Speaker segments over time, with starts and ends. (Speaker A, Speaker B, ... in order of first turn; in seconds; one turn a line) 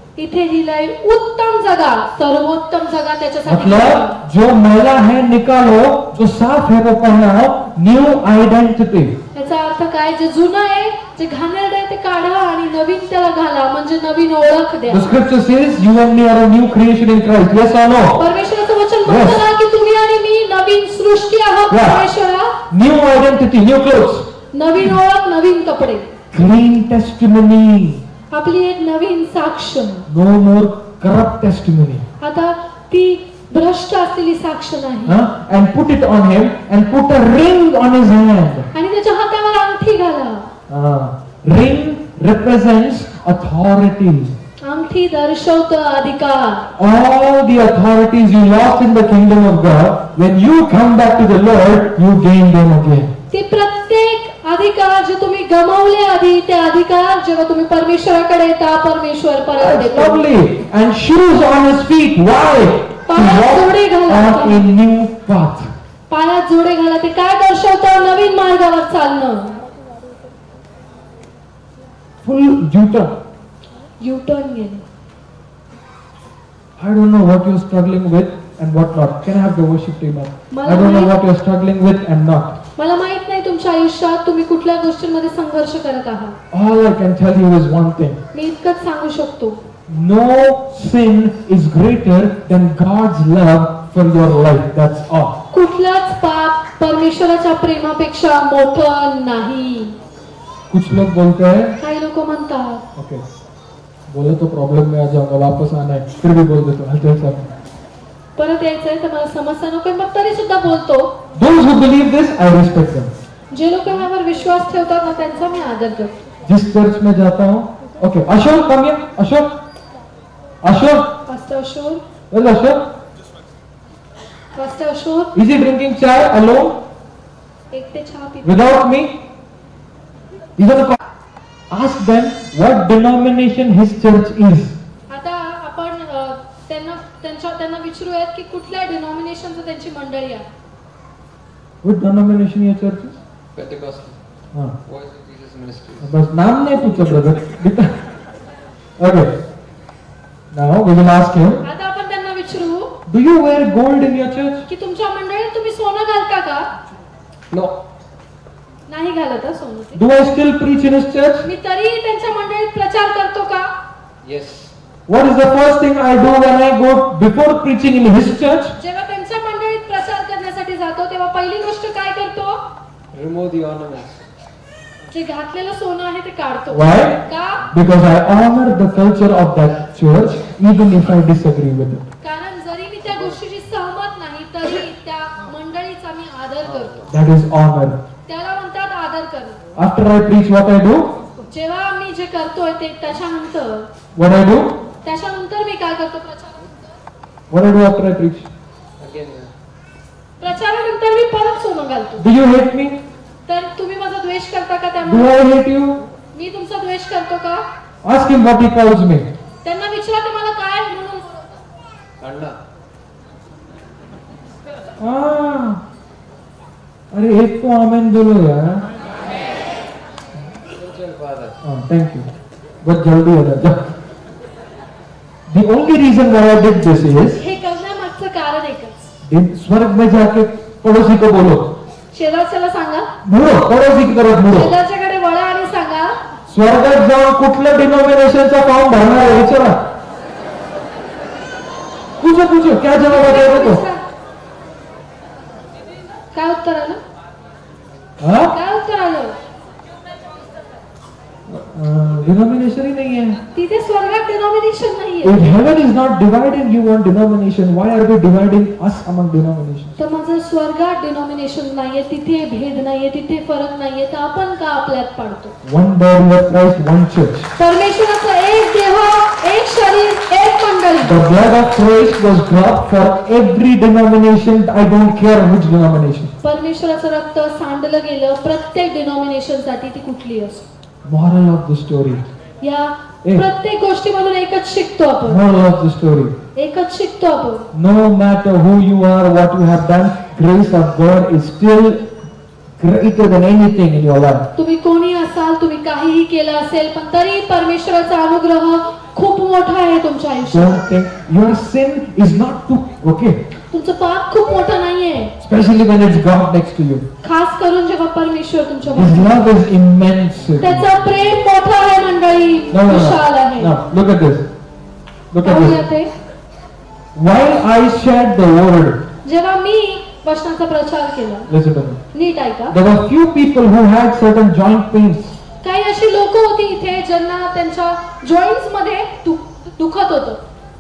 Speaker A: 0.2-4.2
Speaker B: 3.5-9.2
Speaker A: 9.3-15.1
Speaker B: 14.9-18.2
Speaker A: 18.2-22.6
Speaker B: 19.1-19.4
Speaker B: 21.7-22.1
Speaker B: 22.7-24.3
Speaker A: 24.5-26.1
Speaker B: 26.3-28.0
Speaker A: 28.3-30.1
Speaker B: 30.1-32.1
Speaker A: 32.2-35.2
Speaker B: 35.1-38.7
Speaker A: 38.7-40.5
Speaker B: 40.7-44.4
Speaker A: 44.6-46.7
Speaker B: 46.8-53.2
Speaker A: 53.3-60.2
Speaker B: 59.6-65.7
Speaker A: 63.1-64.7
Speaker A: 66.1-69.6
Speaker B: 72.2-73.2
Speaker A: 74.0-74.9
Speaker B: 76.8-82.6
Speaker A: 80.5-81.1
Speaker A: 82.8-86.4
Speaker B: 86.5-88.2
Speaker A: 88.3-89.6
Speaker B: 89.9-95.4
Speaker A: 95.5-100.0
Speaker B: 100.7-101.8
Speaker A: 101.8-102.8
Speaker B: 103.0-103.2
Speaker B: 104.1-107.5
Speaker A: 108.4-111.2
Speaker B: 111.3-113.1
Speaker A: 113.5-116.2
Speaker B: 116.5-119.6
Speaker B: 120.6-121.2
Speaker A: 121.3-122.0
Speaker B: 122.3-122.9
Speaker A: 124.5-125.3
Speaker B: 125.3-126.8
Speaker A: 127.7-128.8
Speaker B: 128.4-129.2
Speaker B: 130.6-131.0
Speaker B: 131.7-134.8
Speaker A: 135.1-140.5
Speaker B: 141.8-143.2
Speaker C: 143.6-144.2
Speaker C: 144.9-146.1
Speaker B: 146.0-148.0
Speaker B: 149.0-149.3
Speaker B: 150.5-151.6
Speaker A: 151.6-153.0
Speaker B: 153.1-154.7
Speaker A: 154.7-156.7
Speaker A: 158.9-160.0
Speaker B: 159.9-161.5
Speaker A: 161.4-163.7
Speaker C: 164.2-164.7
Speaker B: 165.1-168.8
Speaker A: 168.8-172.6
Speaker C: 173.1-174.2
Speaker A: 175.1-177.7
Speaker B: 176.7-182.1
Speaker A: 182.2-187.0
Speaker B: 187.1-188.0
Speaker A: 188.3-189.6
Speaker B: 189.8-191.1
Speaker A: 191.5-193.9
Speaker B: 194.2-194.8
Speaker A: 195.0-196.7
Speaker B: 197.5-198.5
Speaker C: 199.0-199.5
Speaker A: 200.4-202.2
Speaker B: 202.2-203.0
Speaker A: 203.5-205.3
Speaker B: 205.0-206.0
Speaker A: 206.3-207.7
Speaker B: 208.0-209.3
Speaker A: 209.6-211.6
Speaker C: 212.2-212.6
Speaker B: 215.0-215.8
Speaker B: 217.1-218.8
Speaker C: 220.7-221.6
Speaker B: 221.6-222.3
Speaker B: 222.8-223.9
Speaker B: 225.5-227.4
Speaker A: 227.4-229.0
Speaker B: 229.2-231.8
Speaker A: 232.1-233.1
Speaker B: 233.2-234.7
Speaker A: 234.5-236.2
Speaker B: 236.5-239.9
Speaker B: 242.2-243.8
Speaker A: 243.1-244.0
Speaker A: 246.3-247.0
Speaker B: 248.2-248.6
Speaker A: 248.5-249.4
Speaker B: 251.5-253.4
Speaker A: 253.6-255.4
Speaker B: 255.2-260.0
Speaker A: 260.0-265.6
Speaker B: 265.6-267.5
Speaker A: 267.6-271.2
Speaker B: 271.0-276.3
Speaker A: 276.4-280.7
Speaker B: 281.1-282.2
Speaker A: 282.6-285.4
Speaker B: 285.2-286.4
Speaker A: 286.6-287.7
Speaker B: 287.7-292.1
Speaker B: 292.8-294.5
Speaker A: 294.6-300.8
Speaker B: 300.5-303.5
Speaker A: 303.7-305.3
Speaker B: 305.4-307.1
Speaker A: 307.2-309.4
Speaker B: 308.9-310.9
Speaker A: 310.6-313.8
Speaker B: 312.7-314.5
Speaker B: 315.3-315.8
Speaker A: 315.4-316.1
Speaker B: 317.1-319.0
Speaker A: 319.2-321.5
Speaker B: 321.5-322.0
Speaker A: 322.1-322.8
Speaker B: 322.7-325.4
Speaker A: 325.6-330.4